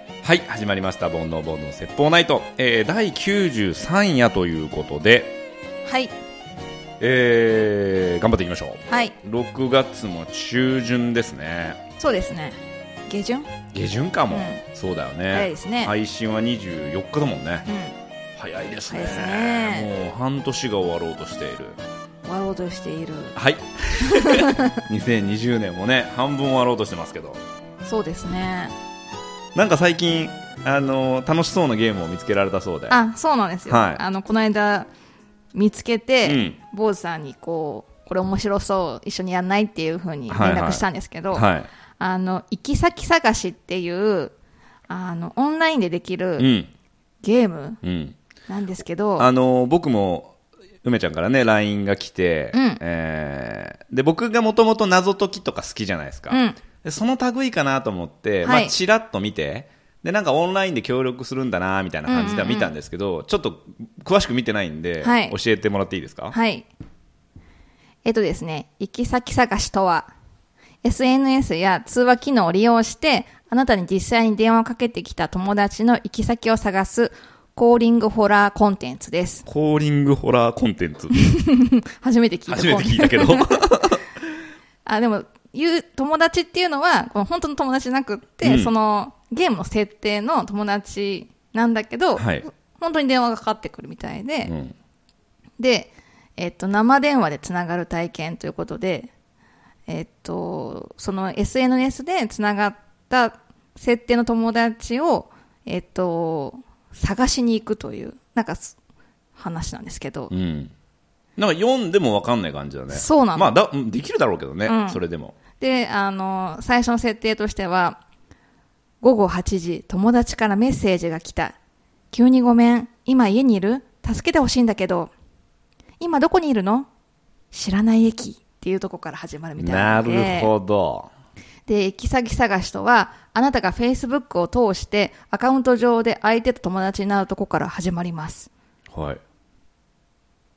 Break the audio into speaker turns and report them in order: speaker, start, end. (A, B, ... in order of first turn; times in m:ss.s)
0:00.2-0:05.4 A
0:05.8-0:06.1 B
0:07.0-0:11.8 A
0:08.9-0:09.2 B
0:12.0-0:13.5 B
0:13.7-0:17.7 A
0:14.3-0:14.6 B
0:15.3-0:15.9 B
0:17.7-0:18.0 B
0:18.4-0:21.8 A
0:18.9-0:19.9 B
0:22.2-0:23.3 B
0:23.3-0:27.4 A
0:24.0-0:24.8 B
0:27.8-0:28.7 B
0:29.5-0:33.0 A
0:32.9-0:34.9 B
0:33.7-0:34.0 A
0:35.5-0:41.5 B
0:36.2-0:36.6 A
0:40.3-0:41.7 A
0:42.0-0:44.3 B
0:44.9-0:46.5 B
0:46.4-0:46.7 A
0:47.2-0:47.8 B
0:47.8-0:48.2 A
0:48.5-0:49.3 B
0:49.2-1:06.4 A
0:52.5-0:52.8 B
0:56.3-0:56.6 B
0:58.4-0:58.7 B
1:02.0-1:02.7 B
1:05.0-1:05.4 B
1:06.3-1:06.7 B
1:08.0-1:10.1 B
1:10.8-1:19.4 B
1:19.5-1:21.2 A
1:21.2-1:23.6 B
1:22.5-1:24.1 A
1:24.8-1:34.5 B
1:28.4-1:28.7 A
1:32.2-1:32.4 A
1:34.4-1:34.8 A
1:35.6-1:39.1 B
1:39.9-1:48.8 B
1:49.4-1:50.3 B
1:50.3-1:50.7 A
1:51.4-1:55.3 A
1:52.9-1:53.6 B
1:54.7-1:55.0 B
1:55.6-1:58.0 B
1:59.0-2:01.6 B
2:02.1-2:05.1 B
2:06.0-2:06.9 B
2:07.5-2:10.5 B
2:09.6-2:11.1 A
2:11.7-2:18.5 B
2:18.9-2:19.2 A